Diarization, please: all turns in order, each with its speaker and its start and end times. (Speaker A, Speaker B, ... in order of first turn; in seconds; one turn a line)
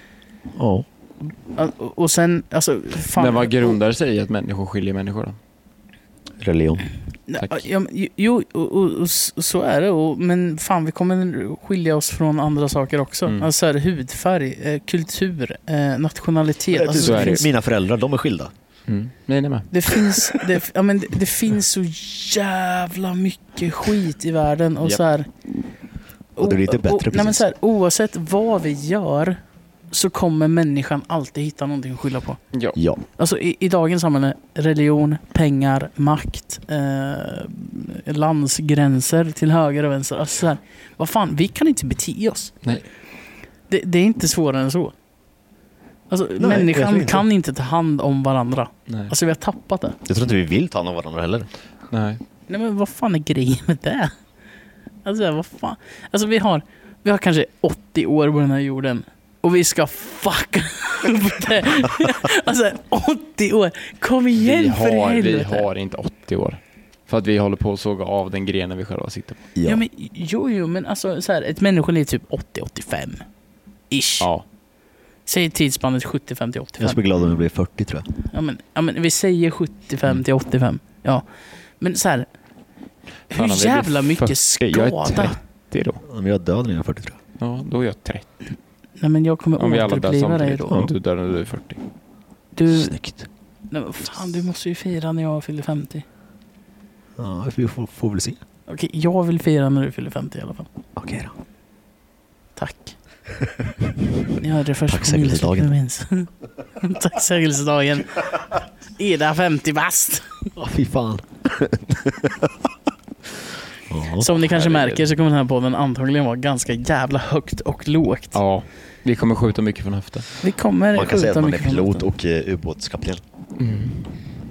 Speaker A: 0.5-0.8
Speaker B: 1.5-3.8
Speaker C: 3.1-5.4
Speaker A: 6.4-6.8
Speaker B: 7.3-17.5
Speaker C: 7.4-7.6
Speaker A: 16.7-18.5
Speaker C: 17.0-17.5
Speaker C: 18.9-19.7
Speaker B: 19.7-25.3
Speaker A: 26.4-27.4
Speaker B: 26.4-29.4
Speaker B: 29.9-32.4
Speaker A: 32.8-33.0
Speaker B: 33.2-42.5
Speaker B: 43.7-44.9
Speaker B: 46.1-50.0
Speaker A: 46.4-47.3
Speaker A: 50.1-51.5
Speaker C: 51.9-52.2
Speaker B: 52.5-54.1
Speaker B: 55.0-65.7
Speaker C: 64.4-69.4
Speaker A: 69.5-69.8
Speaker B: 69.6-73.2
Speaker B: 73.9-74.3
Speaker B: 75.2-77.0
Speaker A: 76.8-78.0
Speaker B: 78.3-81.2
Speaker B: 81.8-82.3
Speaker B: 83.3-85.3
Speaker C: 83.3-86.0
Speaker A: 86.0-87.2
Speaker C: 87.4-88.2
Speaker B: 89.0-90.9
Speaker C: 89.6-91.8
Speaker B: 92.5-92.9
Speaker A: 92.7-93.3
Speaker B: 93.7-96.0
Speaker A: 97.2-98.4
Speaker B: 98.7-100.7
Speaker A: 101.0-101.3
Speaker B: 102.5-103.0
Speaker B: 104.3-110.5
Speaker A: 104.9-105.7
Speaker A: 110.5-112.5
Speaker A: 113.9-114.3
Speaker B: 114.2-118.4
Speaker C: 114.3-115.1
Speaker C: 118.3-120.3
Speaker B: 120.4-122.0
Speaker A: 120.9-123.2
Speaker C: 123.6-124.2